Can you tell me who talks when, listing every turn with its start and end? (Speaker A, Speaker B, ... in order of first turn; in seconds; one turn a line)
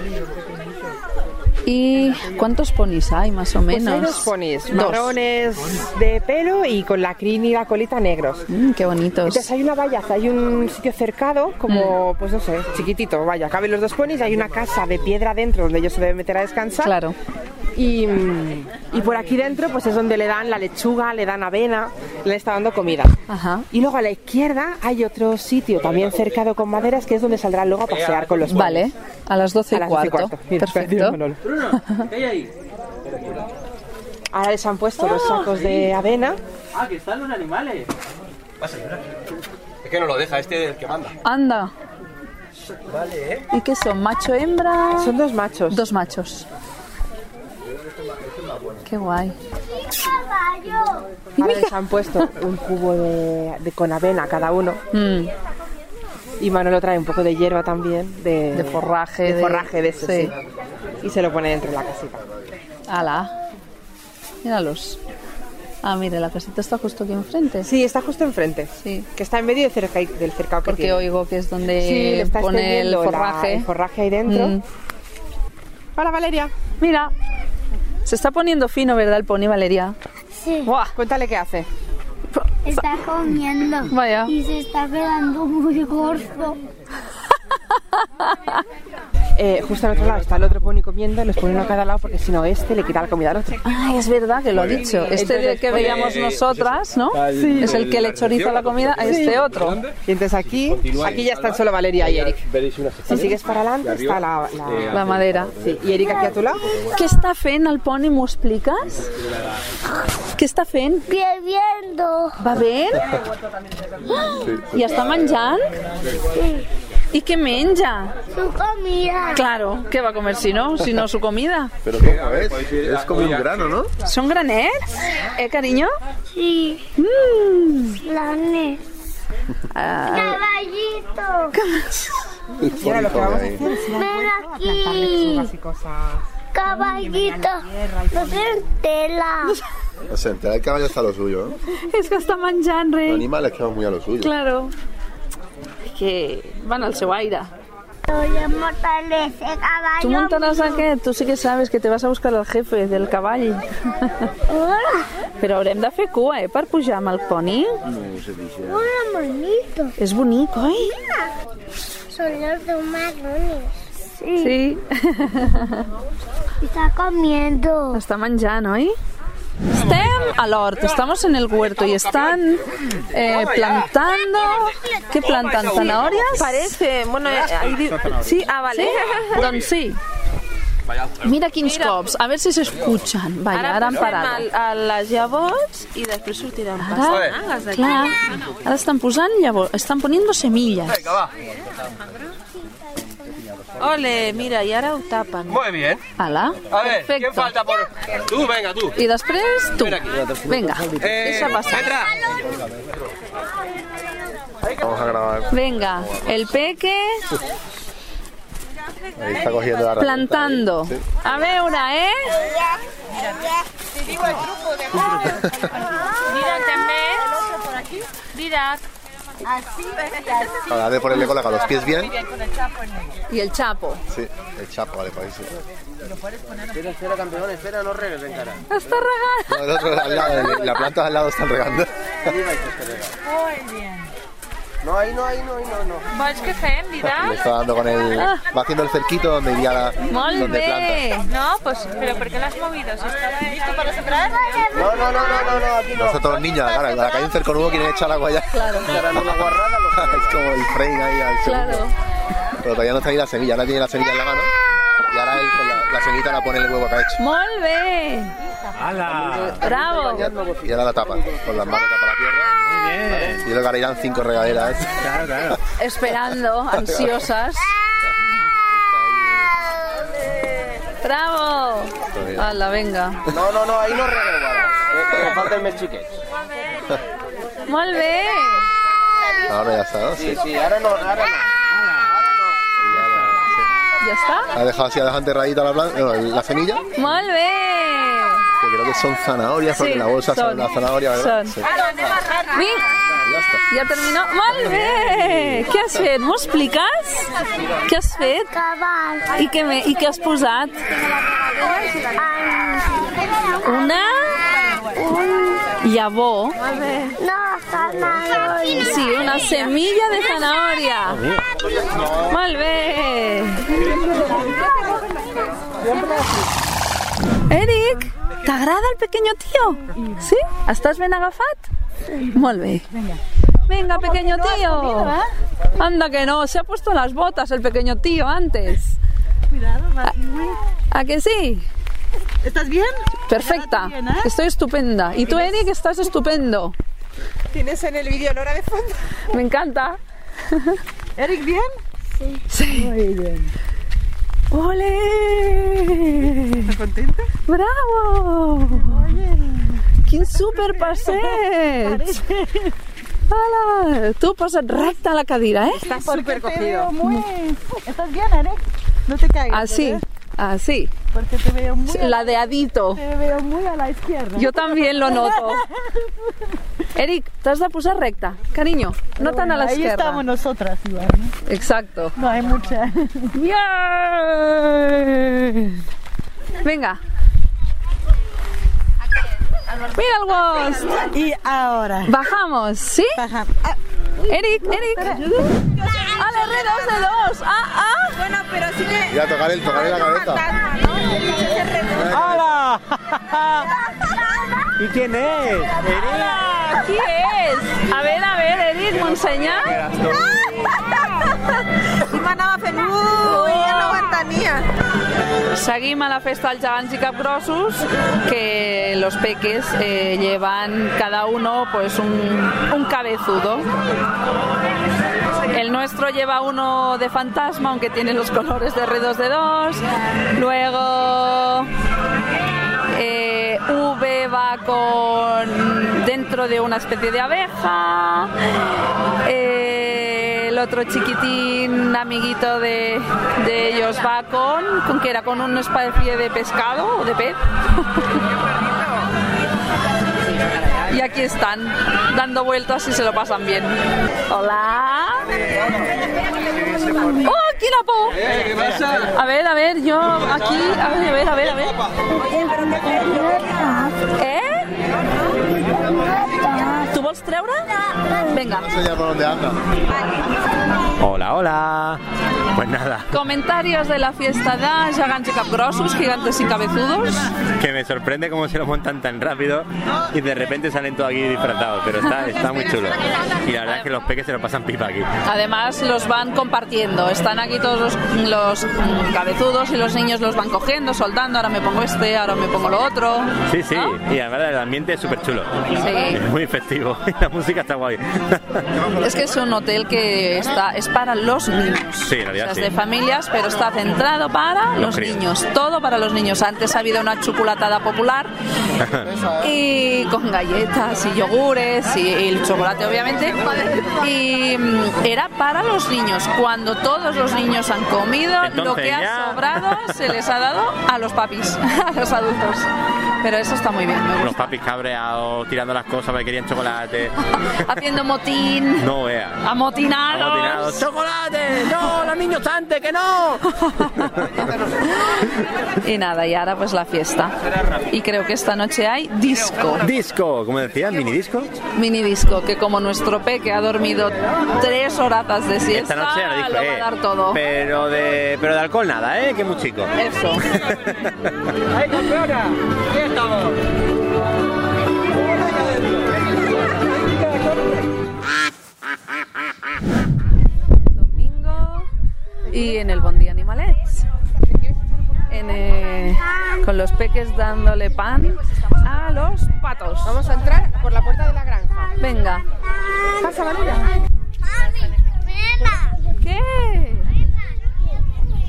Speaker A: 1.6-5.1
Speaker B: 3.7-8.4
Speaker A: 8.5-9.4
Speaker B: 9.2-16.9
Speaker A: 11.7-12.0
Speaker A: 16.8-17.1
Speaker B: 17.7-23.1
Speaker A: 23.3-23.7
Speaker B: 23.7-28.9
Speaker A: 28.4-31.2
Speaker B: 29.7-31.4
Speaker A: 31.7-32.1
Speaker B: 34.3-36.4
Speaker A: 35.0-35.8
Speaker C: 38.6-38.9
Speaker C: 39.8-41.1
Speaker A: 41.2-41.7
Speaker A: 43.5-45.1
Speaker B: 45.0-45.8
Speaker A: 45.7-46.5
Speaker A: 48.9-49.3
Speaker D: 49.9-51.0
Speaker B: 51.4-54.8
Speaker A: 51.4-51.7
Speaker A: 54.9-55.3
Speaker B: 56.4-60.4
Speaker A: 58.5-60.3
Speaker B: 61.0-62.2
Speaker A: 62.9-63.3
Speaker A: 64.4-65.0
Speaker A: 65.8-67.7
Speaker B: 67.6-71.0
Speaker A: 68.8-69.1
Speaker A: 70.6-73.7
Speaker B: 71.8-74.6
Speaker A: 74.2-74.6
Speaker B: 76.0-76.5
Speaker A: 76.8-77.1
Speaker A: 78.0-80.0
Speaker D: 80.3-80.7
Speaker A: 80.6-80.9
Speaker B: 80.9-81.7
Speaker A: 82.3-82.9
Speaker D: 82.6-86.5
Speaker A: 83.9-84.3
Speaker A: 88.2-88.6
Speaker B: 89.4-93.6
Speaker A: 93.6-99.8
Speaker B: 95.1-96.1
Speaker C: 95.7-100.0
Speaker E: 97.3-97.7
Speaker B: 100.0-102.4
Speaker C: 100.5-105.4
Speaker B: 103.1-105.0
Speaker A: 104.9-105.5
Speaker B: 105.6-106.6
Speaker A: 106.9-109.1
Speaker A: 110.4-111.0
Speaker D: 111.1-112.4
Speaker A: 112.4-113.1
Speaker A: 114.1-115.7
Speaker F: 114.3-115.0
Speaker D: 116.3-116.7
Speaker A: 117.1-118.1
Speaker D: 118.3-119.4
Speaker A: 119.3-121.7
Speaker F: 121.8-123.9
Speaker C: 122.0-123.5
Speaker A: 124.0-125.9
Speaker D: 126.3-126.8
Speaker A: 127.0-128.0
Speaker D: 128.0-128.8
Speaker A: 129.7-130.4
Speaker D: 130.1-131.5
Speaker A: 131.5-132.2
Speaker F: 132.6-133.7
Speaker B: 132.7-136.2
Speaker D: 133.8-135.5
Speaker D: 136.5-139.6
Speaker F: 140.1-141.6
Speaker A: 141.9-143.3
Speaker F: 143.1-144.3
Speaker A: 144.2-144.7
Speaker A: 145.8-147.5
Speaker D: 148.1-150.8
Speaker A: 150.0-153.6
Speaker D: 154.5-155.1
Speaker A: 155.4-157.8
Speaker D: 158.6-159.9
Speaker A: 160.0-161.0
Speaker D: 162.1-164.6
Speaker A: 164.4-165.8
Speaker D: 166.6-168.0
Speaker A: 167.9-169.0
Speaker A: 169.7-176.7
Speaker C: 173.2-173.9
Speaker C: 175.2-176.3
Speaker G: 176.3-179.4
Speaker A: 178.7-180.0
Speaker C: 180.9-181.2
Speaker A: 181.2-184.4
Speaker G: 181.6-182.0
Speaker G: 183.5-188.1
Speaker A: 186.8-191.1
Speaker C: 187.1-187.3
Speaker C: 190.9-191.3
Speaker G: 193.8-195.6
Speaker C: 195.5-196.0
Speaker A: 196.2-197.5
Speaker C: 196.7-199.0
Speaker A: 199.0-201.9
Speaker C: 199.8-200.3
Speaker C: 201.0-202.2
Speaker F: 204.8-205.5
Speaker A: 205.5-207.2
Speaker F: 209.2-211.0
Speaker A: 209.9-212.4
Speaker F: 215.2-215.5
Speaker G: 216.3-217.2
Speaker E: 217.4-218.0
Speaker G: 218.3-218.8
Speaker F: 220.7-222.1
Speaker A: 223.3-224.0
Speaker F: 224.1-225.6
Speaker C: 226.8-228.6
Speaker A: 228.7-230.5
Speaker F: 229.5-232.3
Speaker C: 232.4-232.9
Speaker E: 233.3-234.1
Speaker C: 234.8-236.0
Speaker G: 236.1-237.4
Speaker F: 237.0-241.1
Speaker A: 238.2-238.4
Speaker A: 240.1-241.3
Speaker G: 241.3-243.6
Speaker E: 243.8-244.3
Speaker C: 244.7-246.2
Speaker F: 245.9-251.8
Speaker A: 248.5-248.9
Speaker C: 248.9-250.4
Speaker A: 251.4-251.9
Speaker F: 252.6-254.5
Speaker F: 255.1-257.2
Speaker A: 257.2-258.3
Speaker H: 258.7-259.6
Speaker C: 259.1-260.7
Speaker A: 259.6-260.3
Speaker F: 260.1-262.6
Speaker H: 262.6-263.4
Speaker F: 263.3-265.1
Speaker H: 265.0-265.6
Speaker A: 265.8-267.7
Speaker A: 271.0-273.2
Speaker F: 272.1-272.6
Speaker C: 273.3-276.1
Speaker A: 277.7-278.6
Speaker F: 279.5-280.4
Speaker C: 280.2-281.4
Speaker F: 282.8-283.6
Speaker A: 284.0-284.5
Speaker F: 284.5-286.9
Speaker A: 287.0-288.4
Speaker F: 288.6-291.7
Speaker A: 289.7-291.6
Speaker A: 292.5-292.9
Speaker F: 293.2-293.6
Speaker A: 293.7-297.3
Speaker A: 297.9-298.5
Speaker D: 298.3-299.4
Speaker A: 299.3-300.8
Speaker D: 301.9-303.2
Speaker A: 303.6-304.4
Speaker D: 304.9-305.7
Speaker A: 305.8-306.6
Speaker G: 306.7-307.1
Speaker D: 307.2-309.8
Speaker A: 308.7-311.2
Speaker H: 311.1-311.4
Speaker A: 312.3-314.0
Speaker E: 315.8-316.4
Speaker A: 317.5-321.7
Speaker E: 319.9-320.2
Speaker A: 322.3-322.9
Speaker E: 322.9-323.2
Speaker A: 323.7-325.1
Speaker E: 323.9-325.3
Speaker A: 325.8-329.0
Speaker E: 329.5-330.6
Speaker A: 330.9-331.6
Speaker E: 332.4-334.3
Speaker A: 333.3-336.7
Speaker B: 337.5-339.0
Speaker A: 339.3-340.0
Speaker A: 340.5-340.8
Speaker E: 341.2-341.7
Speaker A: 342.5-342.9
Speaker E: 342.7-343.5
Speaker A: 344.5-346.7
Speaker B: 346.7-347.2
Speaker A: 347.5-349.0
Speaker E: 348.7-349.8
Speaker A: 350.1-352.2
Speaker E: 350.4-352.7
Speaker A: 353.3-355.9
Speaker B: 355.8-356.9
Speaker E: 355.9-360.0
Speaker A: 359.5-360.9
Speaker E: 361.1-366.3
Speaker A: 361.9-363.0
Speaker A: 364.4-365.6
Speaker A: 366.9-370.2
Speaker E: 369.2-371.3
Speaker A: 371.5-372.1
Speaker E: 372.1-373.3
Speaker A: 373.3-375.7
Speaker A: 376.6-377.0
Speaker A: 379.9-381.1
Speaker E: 381.1-382.1
Speaker A: 382.1-383.2
Speaker E: 383.2-383.8
Speaker A: 384.3-385.5
Speaker E: 384.8-385.7
Speaker A: 386.1-388.2
Speaker G: 388.2-389.0
Speaker F: 389.1-390.4
Speaker G: 390.6-390.9
Speaker G: 391.4-392.0
Speaker F: 392.0-392.3
Speaker H: 392.1-393.7
Speaker H: 394.8-396.4
Speaker A: 396.0-399.8
Speaker H: 399.6-400.4
Speaker G: 402.1-404.6
Speaker A: 403.2-404.1
Speaker A: 405.5-413.7
Speaker A: 415.5-419.8
Speaker A: 420.3-421.7
Speaker A: 422.9-428.3
Speaker A: 429.2-438.0
Speaker A: 440.9-443.8
Speaker A: 444.3-445.4
Speaker A: 447.2-448.2
Speaker C: 448.2-449.1
Speaker A: 449.1-451.8
Speaker D: 452.2-453.9
Speaker A: 454.2-454.7
Speaker A: 456.7-457.7
Speaker A: 458.3-458.7
Speaker F: 458.4-459.6
Speaker H: 461.0-462.0
Speaker H: 462.5-463.1
Speaker A: 463.1-467.3
Speaker H: 467.6-475.1
Speaker A: 475.2-483.9
Speaker H: 483.5-488.6
Speaker A: 485.8-486.2
Speaker A: 489.0-498.3
Speaker H: 492.1-492.7
Speaker H: 494.8-495.2
Speaker H: 498.8-499.1
Speaker A: 499.4-512.7
Speaker H: 508.4-509.9
Speaker A: 513.2-514.5
Speaker H: 514.2-517.1
Speaker A: 517.5-518.9
Speaker H: 518.8-519.4
Speaker A: 519.4-520.9
Speaker H: 520.1-523.4
Speaker A: 523.6-524.2
Speaker A: 525.8-527.4
Speaker A: 527.9-529.9
Speaker H: 529.8-531.5
Speaker A: 531.8-537.4
Speaker H: 535.7-539.9
Speaker A: 539.9-540.4
Speaker H: 540.6-541.1
Speaker A: 550.9-551.9
Speaker A: 552.5-554.0
Speaker A: 555.3-560.2
Speaker B: 560.0-561.9
Speaker A: 562.0-562.4
Speaker B: 563.2-563.9
Speaker D: 565.5-565.9
Speaker A: 566.2-567.1